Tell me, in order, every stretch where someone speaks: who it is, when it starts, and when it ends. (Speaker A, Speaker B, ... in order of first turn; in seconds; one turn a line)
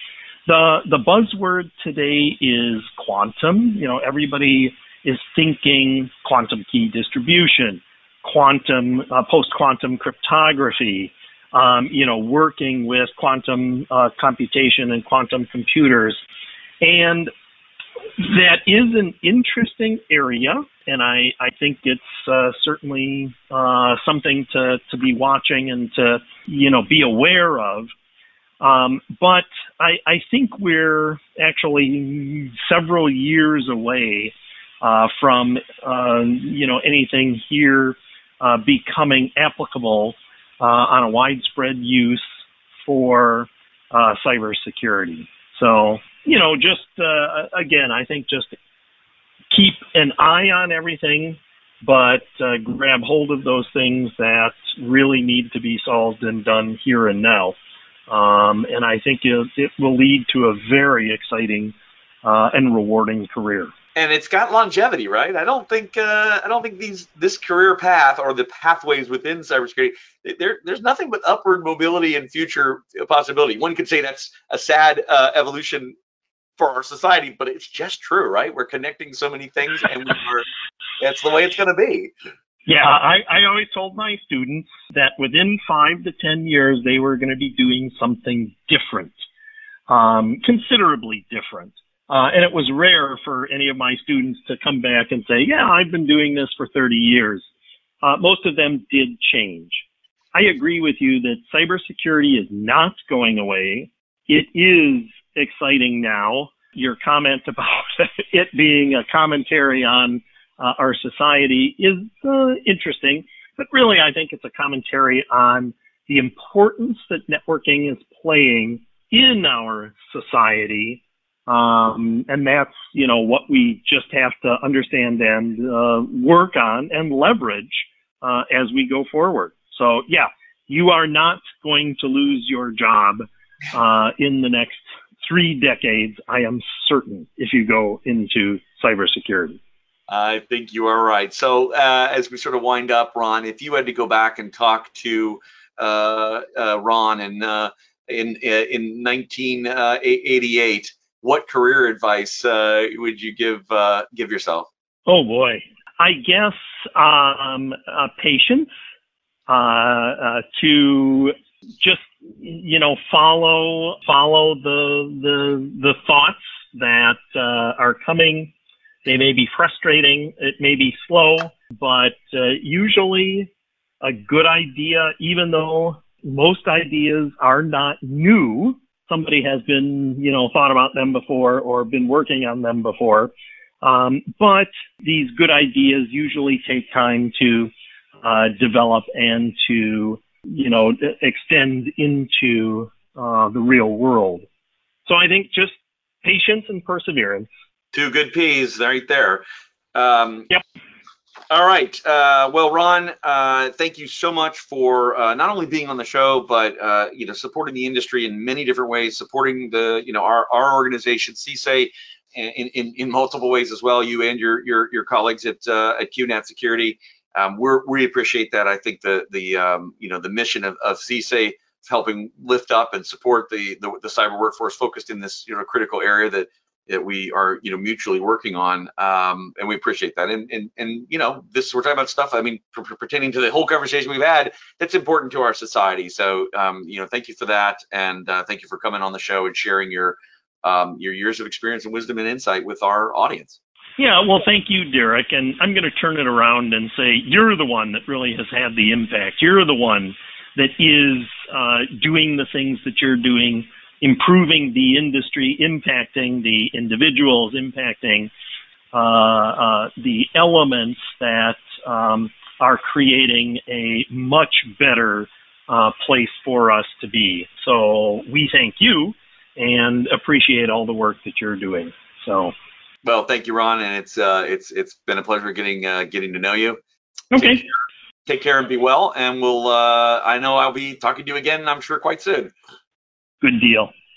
Speaker A: 0.5-16.2
Speaker A: 16.8-17.3
Speaker A: 18.2-27.9
Speaker A: 28.6-48.5
Speaker A: 49.5-57.5
Speaker A: 58.1-63.7
Speaker B: 63.9-75.9
Speaker B: 76.6-80.5
Speaker B: 81.0-82.1
Speaker A: 82.7-89.2
Speaker A: 89.9-97.5
Speaker A: 98.0-139.6
Speaker B: 140.1-154.7
Speaker A: 155.1-158.7
Speaker A: 159.5-168.5
Speaker A: 169.1-173.5
Speaker A: 174.0-194.4
Speaker A: 195.1-197.5
Speaker B: 197.9-200.5
Speaker B: 201.5-243.6
Speaker A: 244.0-258.3
Speaker A: 258.9-272.5
Speaker B: 273.0-276.8
Speaker A: 277.3-277.6
Speaker B: 278.3-282.5
Speaker A: 283.4-283.9